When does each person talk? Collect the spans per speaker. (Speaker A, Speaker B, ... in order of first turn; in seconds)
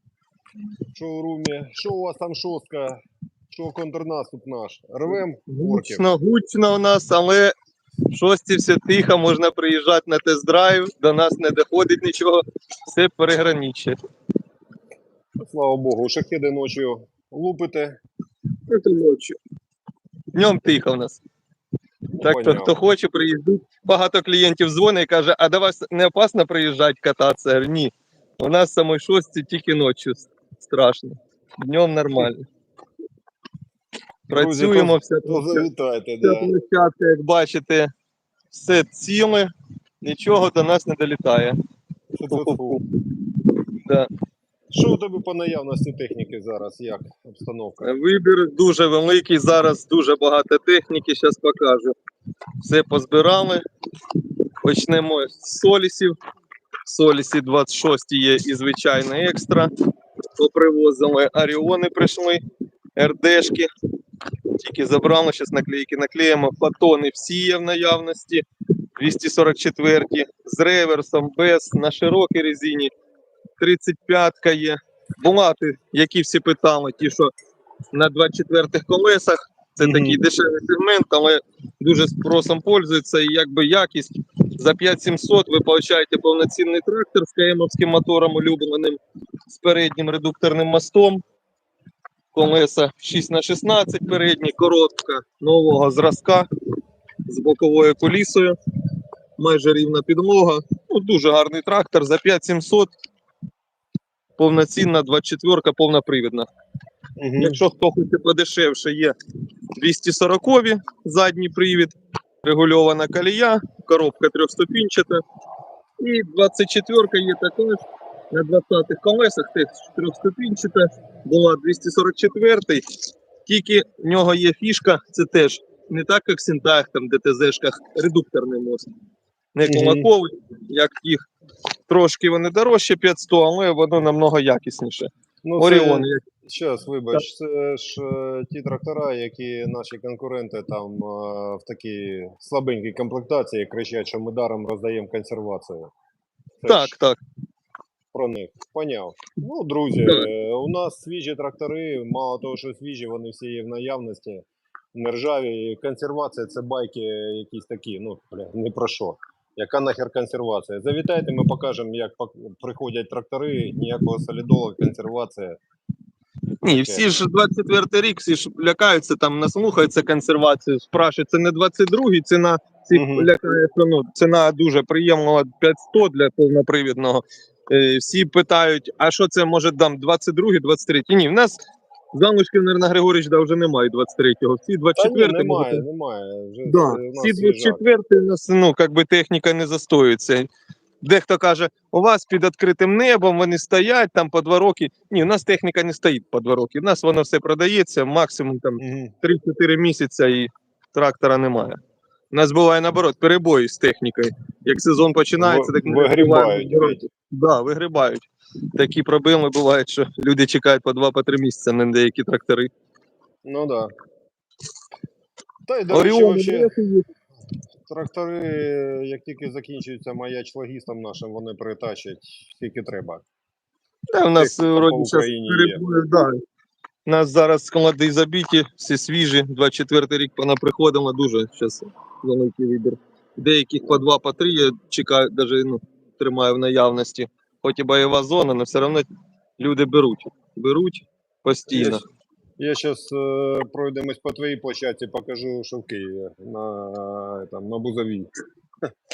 Speaker A: 0.9-6.0, 15.4-18.0, 22.1-22.7, 34.3-36.5, 42.1-42.8, 44.7-48.0, 79.8-80.2, 107.2-107.6, 129.6-130.1, 135.4-145.9, 146.6-146.9, 148.1-165.6, 166.7-167.0, 172.9-173.3, 184.9-187.8, 198.8-199.1, 205.4-207.0, 213.4-213.9, 215.7-216.7, 217.9-223.2, 224.3-225.8, 241.7-242.0, 242.6-248.3
Speaker B: 5.5-7.5, 8.1-14.0, 18.7-19.4, 20.3-21.2, 22.2-32.5, 34.3-35.6, 36.2-37.9, 38.5-39.5, 40.0-41.6, 42.3-42.8, 43.8-44.1, 47.8-52.0, 52.6-53.6, 54.6-56.2, 56.9-59.7, 60.4-62.4, 63.0-63.7, 64.6-68.4, 69.0-72.9, 73.6-77.3, 77.9-91.2, 92.3-96.5, 97.2-98.5, 99.4-102.9, 104.4-106.5, 107.4-109.2, 109.8-115.2, 116.0-122.8, 123.5-128.9, 129.5-131.3, 131.9-136.2, 146.7-147.2, 166.6-181.6, 182.1-185.8, 186.7-190.5, 191.0-201.8, 202.3-212.7, 215.9-217.1, 224.1-226.4, 227.1-239.1, 239.6-242.0